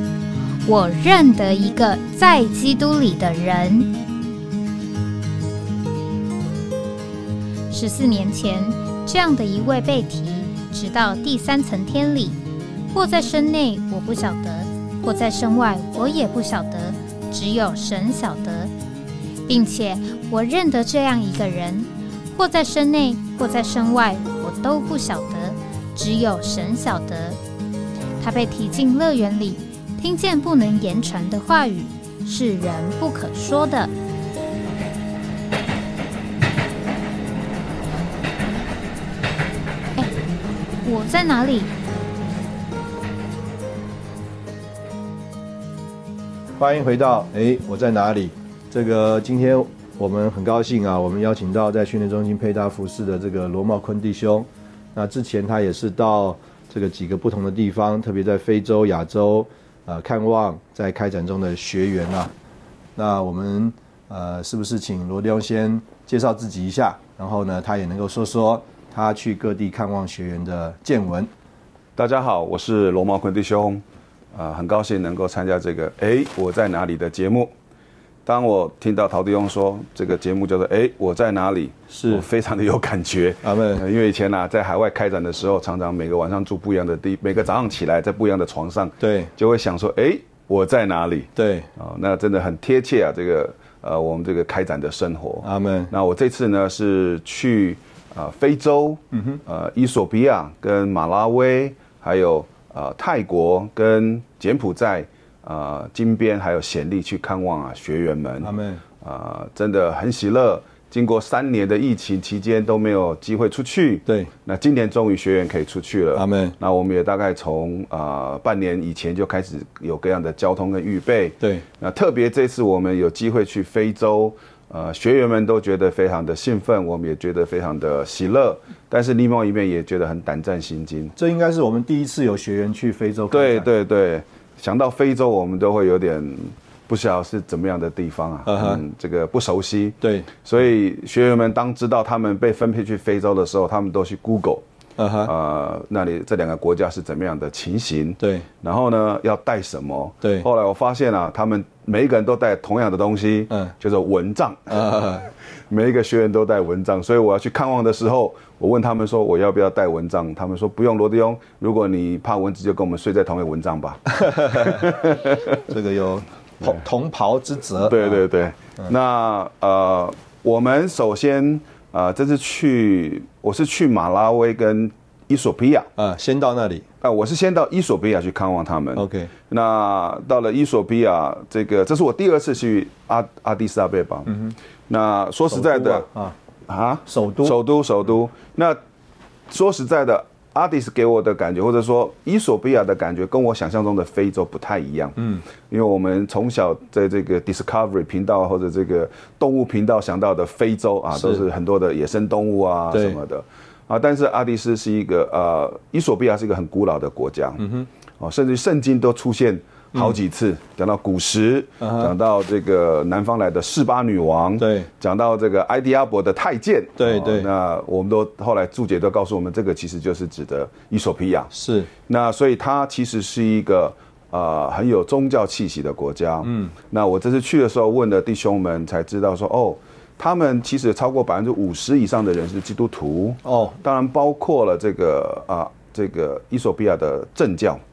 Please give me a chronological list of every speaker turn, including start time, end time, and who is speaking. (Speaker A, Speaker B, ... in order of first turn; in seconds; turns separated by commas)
Speaker A: 0.7-3.9, Speaker A: 7.7-12.4, Speaker A: 12.9-18.7, Speaker A: 19.5-27.4, Speaker A: 28.2-33.9, Speaker A: 40.8-41.7, Speaker B: 46.6-62.3, Speaker B: 63.0-71.3, Speaker C: 72.0-77.5, Speaker C: 78.2-131.1, Speaker B: 81.9-82.2, Speaker B: 83.4-83.8, Speaker B: 89.0-89.3, Speaker B: 91.3-91.7, Speaker B: 95.4-95.9, Speaker B: 99.1-99.4, Speaker B: 108.4-108.8, Speaker B: 114.0-114.3, Speaker B: 116.1-116.5, Speaker B: 131.2-133.7, Speaker C: 133.3-144.6, Speaker B: 138.4-138.8, Speaker B: 140.0-140.3, Speaker B: 145.0-145.3, Speaker C: 145.2-154.9, Speaker B: 148.2-148.5, Speaker B: 150.2-150.5, Speaker B: 154.7-155.3, Speaker C: 155.7-165.6, Speaker B: 164.1-168.2, Speaker C: 167.8-175.9, Speaker B: 175.9-176.8, Speaker C: 177.0-186.1, Speaker B: 178.9-179.3, Speaker B: 184.3-184.5, Speaker B: 185.5-186.3, Speaker C: 186.7-188.8, Speaker B: 187.1-187.6, Speaker C: 189.5-207.6, Speaker B: 195.2-195.4, Speaker B: 201.1-201.5, Speaker B: 202.9-203.2, Speaker B: 207.6-207.9, Speaker C: 208.2-221.5, Speaker B: 211.8-212.1, Speaker B: 214.6-214.9, Speaker B: 217.0-217.5, Speaker B: 221.5-221.9, Speaker C: 222.1-237.8, Speaker B: 226.4-226.7, Speaker B: 233.4-233.8